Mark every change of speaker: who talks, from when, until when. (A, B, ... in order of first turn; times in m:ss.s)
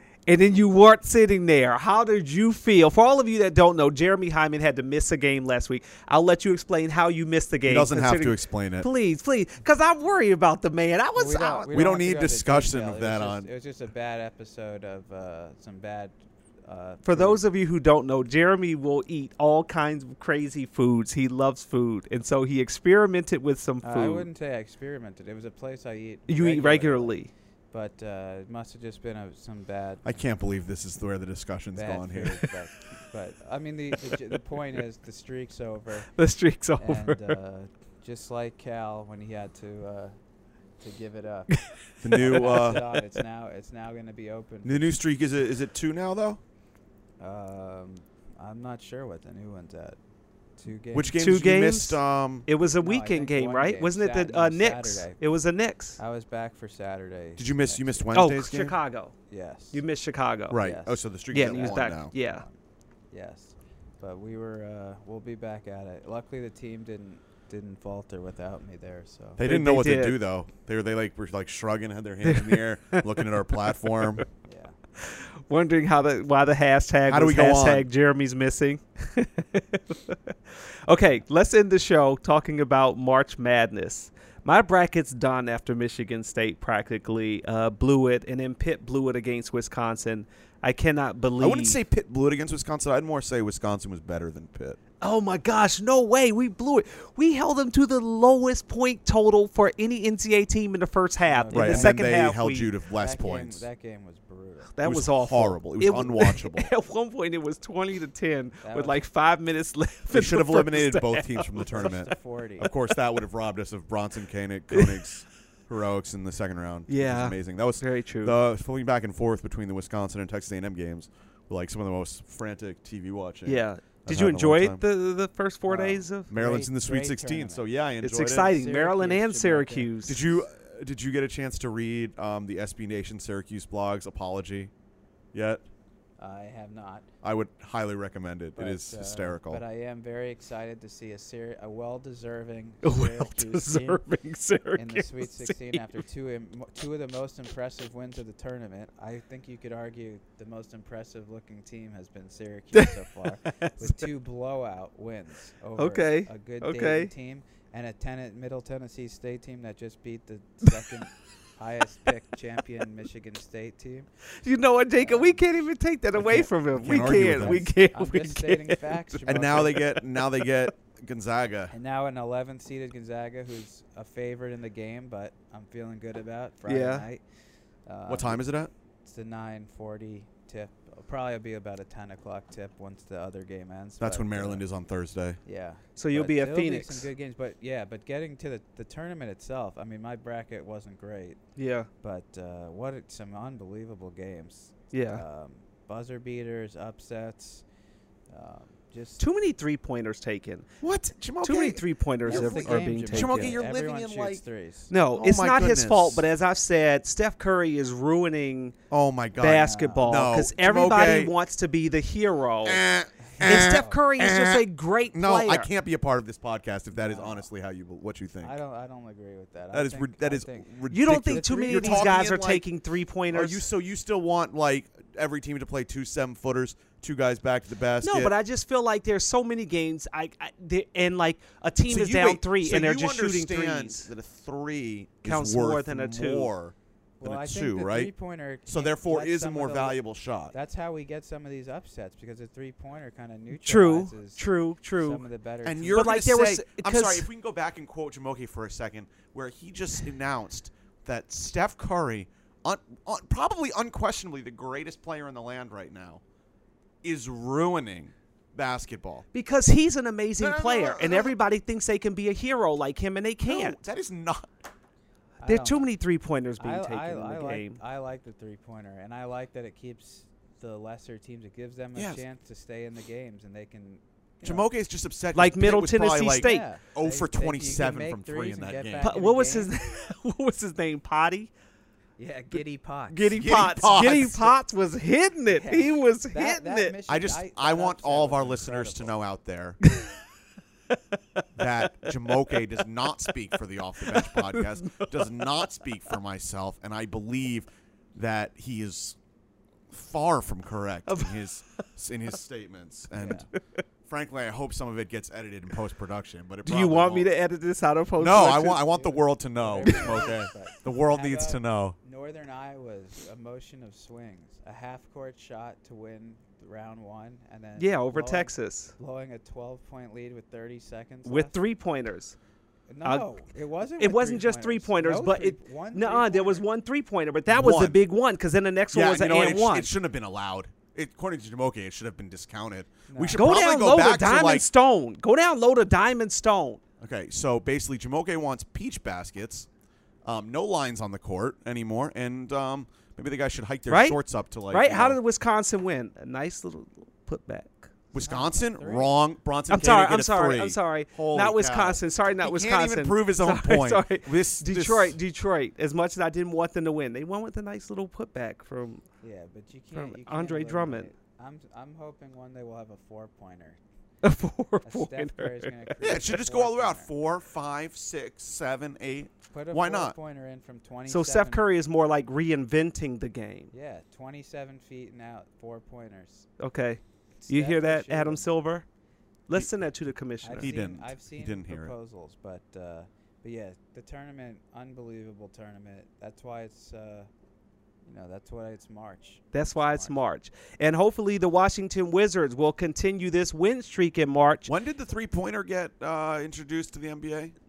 0:00.3-0:11.8 A
0:07.7-0:08.9 B
0:11.2-0:17.4 C
0:11.7-0:13.5 B
0:17.0-0:24.3 A
0:23.8-0:27.2 C
0:26.3-0:27.3 A
0:27.7-0:30.3 C
0:30.0-0:32.5 B
0:31.7-0:36.1 C
0:36.2-0:37.4 A
0:36.8-0:40.1 C
0:40.8-0:41.5 C
0:42.0-0:43.0 A
0:42.0-0:42.8 B
0:42.1-0:45.0 C
0:44.6-0:46.4 B
0:47.2-0:50.0 C
0:50.6-0:51.2 C
0:50.9-0:52.5 B
0:51.2-0:56.0 A
0:52.8-0:55.2 C
0:56.0-0:58.1 C
0:57.4-0:58.8 B
0:58.1-0:59.1 A
0:59.3-0:59.8 C
0:59.7-1:00.6 A
1:00.5-1:02.1 B
1:00.5-1:02.6 C
1:01.3-1:02.4 A
1:03.1-1:09.4 C
1:09.4-1:14.2 B
1:09.4-1:10.2 A
1:12.2-1:13.2 A
1:14.4-1:14.8 C
1:15.0-1:31.8 A
1:17.1-1:17.9 B
1:31.4-1:34.8 B
1:35.0-1:42.7 A
1:41.2-1:42.0 C
1:41.5-1:43.6 B
1:42.9-1:44.7 C
1:44.8-1:52.1 A
1:44.8-1:46.7 B
1:48.6-1:49.0 C
1:50.1-2:04.8 B
1:51.7-1:52.7 C
1:54.7-1:55.0 A
1:56.9-1:58.4 A
2:03.5-2:06.3 A
2:05.7-2:07.7 C
2:06.3-2:08.5 B
2:08.0-2:10.2 A
2:08.3-2:10.3 C
2:10.0-2:14.7 B
2:15.3-2:15.6 B
2:16.2-2:17.1 C
2:17.2-2:19.6 B
2:18.6-2:24.0 C
2:22.8-2:26.0 A
2:24.7-2:44.1 C
2:32.7-2:34.1 A
2:35.8-2:37.1 A
2:44.4-2:50.0 A
2:44.9-2:45.4 C
2:46.3-2:47.7 B
2:46.8-2:49.8 C
2:49.3-2:51.7 B
2:51.7-2:57.2 C
2:56.7-2:57.1 A
2:57.9-2:58.5 C
2:58.1-2:58.7 B
2:59.0-3:04.6 C
3:04.0-3:05.4 B
3:05.4-3:11.4 C
3:06.0-3:07.1 A
3:11.6-3:11.9 A
3:12.0-3:17.6 C
3:14.9-3:15.2 A
3:18.3-3:19.2 C
3:19.2-3:20.6 A
3:20.8-3:24.4 B
3:21.4-3:23.6 A
3:22.2-3:24.9 C
3:24.9-3:28.7 A
3:25.1-3:26.3 B
3:28.9-3:31.3 B
3:29.4-3:32.8 A
3:29.6-3:30.3 C
3:32.6-3:38.6 B
3:33.4-3:34.0 C
3:33.4-3:35.7 A
3:36.9-3:37.5 C
3:38.4-3:40.7 C
3:39.7-3:42.7 B
3:40.9-3:43.7 A
3:41.3-3:42.2 C
3:43.3-3:48.3 B
3:48.0-3:54.1 A
3:51.9-3:58.1 B
3:55.2-3:56.5 A
3:57.2-4:00.0 C
3:58.7-4:00.6 B
4:00.5-4:06.1 C
4:03.5-4:05.2 A
4:05.6-4:16.2 B
4:05.9-4:07.3 A
4:17.0-4:19.3 B
4:19.3-4:23.8 A
4:20.4-4:21.3 B
4:23.4-4:24.5 B
4:25.4-4:25.9 C
4:25.4-4:27.8 A
4:26.6-4:34.7 C
4:32.0-4:32.2 B
4:34.4-4:39.2 B
4:35.3-4:36.7 A
4:36.4-4:39.7 C
4:39.0-4:41.5 A
4:42.2-4:43.4 C
4:42.5-4:47.0 A
4:43.4-4:44.5 B
4:45.5-4:49.2 C
4:47.1-4:49.8 B
4:49.9-4:50.2 A
4:51.6-4:59.2 B
4:51.9-4:52.6 A
4:54.1-4:55.5 A
4:59.9-5:03.5 B
5:01.1-5:01.5 A
5:03.2-5:03.5 C
5:04.1-5:07.3 B
5:06.6-5:09.0 A
5:08.2-5:12.0 B
5:08.9-5:21.6 C
5:09.8-5:10.3 A
5:17.8-5:18.9 A
5:21.2-5:22.4 A
5:22.9-5:26.7 C
5:23.0-5:23.3 A
5:24.0-5:29.9 A
5:27.5-5:28.0 B
5:28.9-5:34.7 B
5:33.1-5:33.5 C
5:33.3-5:36.8 A
5:37.0-5:39.7 B
5:40.2-5:45.2 B
5:43.9-5:47.9 A
5:48.1-5:55.2 B
5:48.2-5:49.2 C
5:49.7-5:59.0 A
5:59.2-6:03.8 C
5:59.9-6:01.1 A
6:04.2-6:06.4 A
6:04.8-6:07.1 C
6:06.0-6:10.2 B
6:09.5-6:11.6 C
6:11.1-6:13.7 A
6:13.7-6:16.5 C
6:16.6-6:18.8 A
6:17.4-6:18.5 C
6:19.5-6:20.7 A
6:20.4-6:27.3 C
6:20.6-6:21.9 B
6:28.1-6:30.2 C
6:29.5-6:34.7 A
6:34.7-6:37.5 B